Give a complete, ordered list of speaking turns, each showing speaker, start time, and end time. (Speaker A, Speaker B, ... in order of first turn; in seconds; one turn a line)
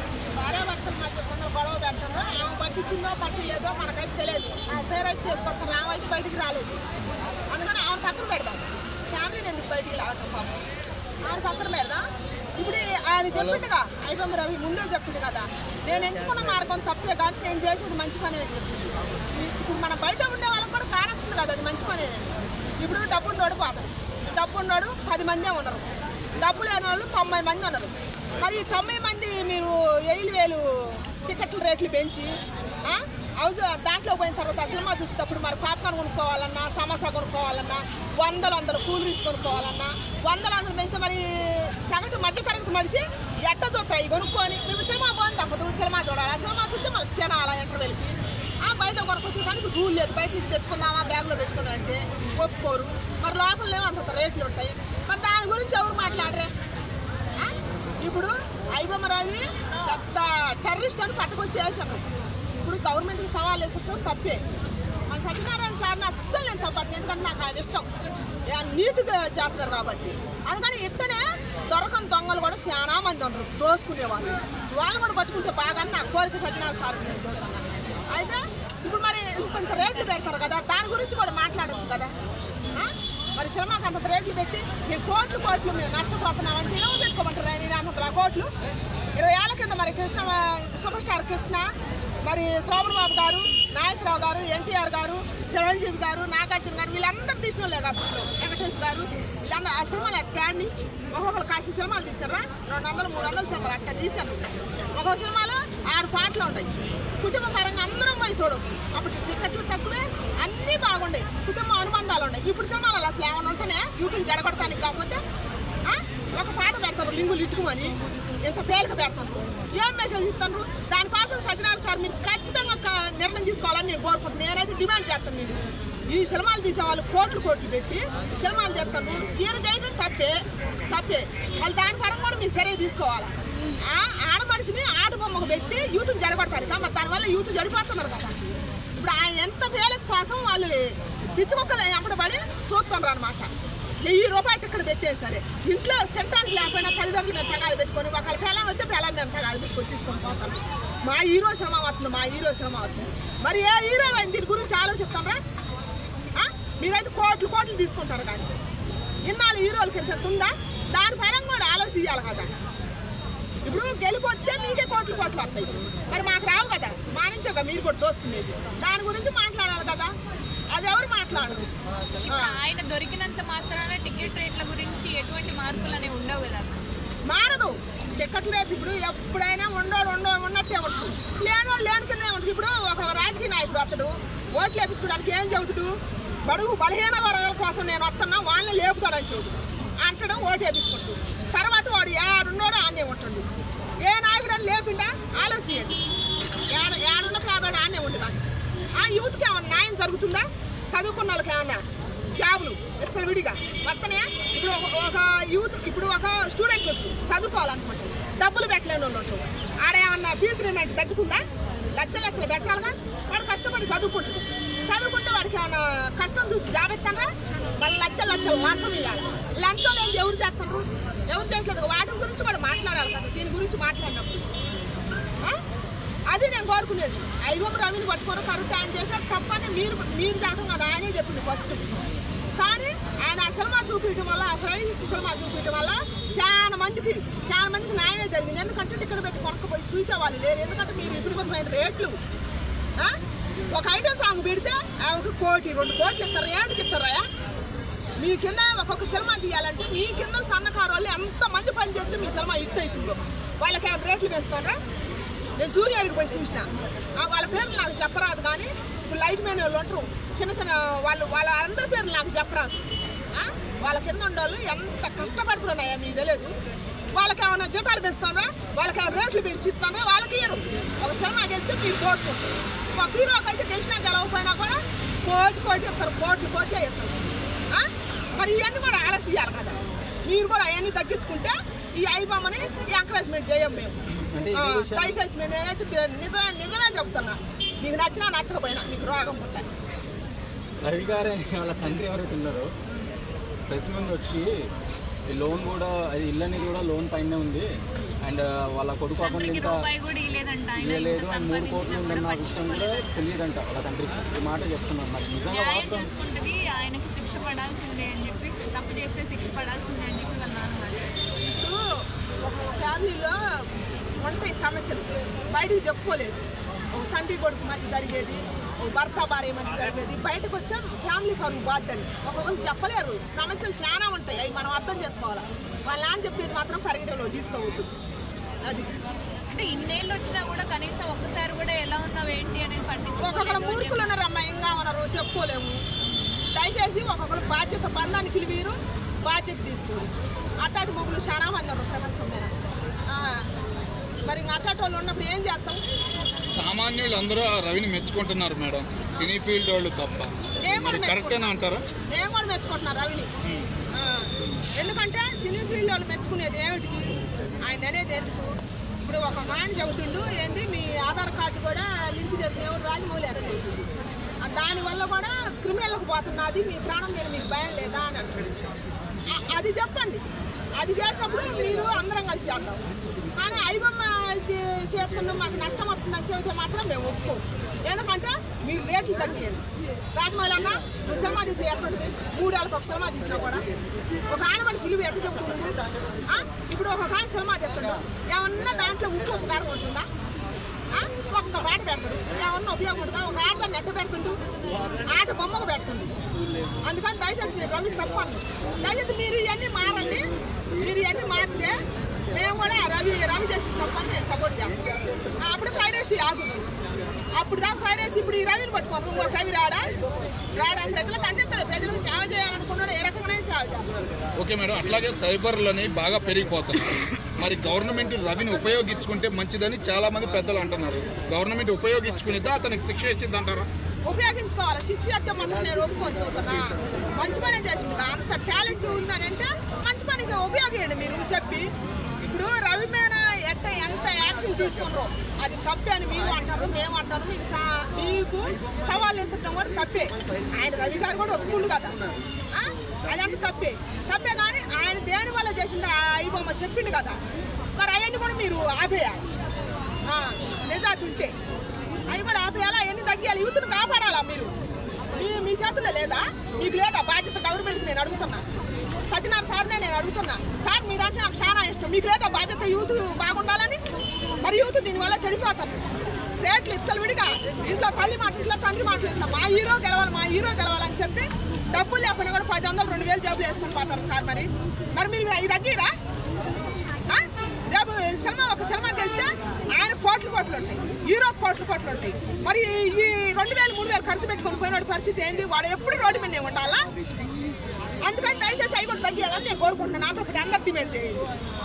Speaker A: 0.3-6.7
Speaker A: 7.5-10.6
Speaker A: 11.2-12.1
Speaker A: 12.6-25.9
Speaker A: 26.4-32.3
Speaker A: 32.9-56.5
Speaker A: 57.4-62.0
Speaker A: 62.6-64.4
Speaker A: 65.1-67.9
Speaker A: 68.5-82.1
Speaker A: 82.7-88.5
Speaker A: 89.2-91.7
Speaker A: 92.2-115.2
Speaker A: 115.8-133.3
Speaker A: 133.8-138.4
Speaker A: 138.9-143.5
Speaker A: 144.0-155.4
Speaker A: 156.3-158.5
Speaker A: 159.2-162.5
Speaker A: 163.6-170.1
Speaker A: 170.7-171.7
Speaker B: 172.2-176.8
Speaker A: 172.3-172.6
Speaker A: 177.3-193.5
Speaker A: 194.0-196.0
Speaker A: 196.7-198.4
Speaker A: 199.0-201.8
Speaker A: 202.3-211.4
Speaker A: 211.9-224.5
Speaker A: 226.3-242.2
Speaker A: 243.7-247.2
Speaker A: 248.2-254.8
Speaker A: 255.6-262.8
Speaker A: 263.3-266.5
Speaker A: 267.1-284.0
Speaker C: 284.1-285.2
Speaker A: 284.5-289.7
Speaker C: 290.8-292.7
Speaker C: 293.7-294.5
Speaker C: 295.3-297.7
Speaker C: 298.2-299.9
Speaker B: 299.2-303.1
Speaker C: 300.8-306.1
Speaker B: 305.5-311.1
Speaker A: 311.4-313.7
Speaker A: 314.2-316.4
Speaker A: 316.9-327.9
Speaker A: 328.6-328.9
Speaker B: 329.5-334.2
Speaker A: 333.2-335.8
Speaker A: 336.5-342.5
Speaker A: 343.1-343.5
Speaker A: 344.2-345.8
Speaker D: 346.5-351.8
Speaker A: 350.6-351.5
Speaker A: 352.1-353.3
Speaker D: 353.4-353.7
Speaker A: 354.0-363.9
Speaker A: 364.4-368.5
Speaker A: 369.3-370.2
Speaker A: 370.8-372.8
Speaker A: 373.4-379.6
Speaker A: 380.1-383.6
Speaker A: 384.3-385.7
Speaker A: 386.3-390.1
Speaker A: 390.9-394.4
Speaker A: 395.1-396.1
Speaker A: 396.8-401.7
Speaker A: 402.3-404.8
Speaker A: 405.4-406.7
Speaker A: 407.4-409.9
Speaker A: 410.5-413.9
Speaker D: 414.4-423.7
Speaker A: 424.1-431.7
Speaker A: 432.2-441.9
Speaker A: 442.5-447.2
Speaker A: 447.8-449.2
Speaker A: 450.1-451.3
Speaker A: 452.1-454.5
Speaker A: 455.1-458.4
Speaker A: 459.1-463.8
Speaker A: 464.4-475.9
Speaker A: 477.1-486.8
Speaker A: 488.0-491.2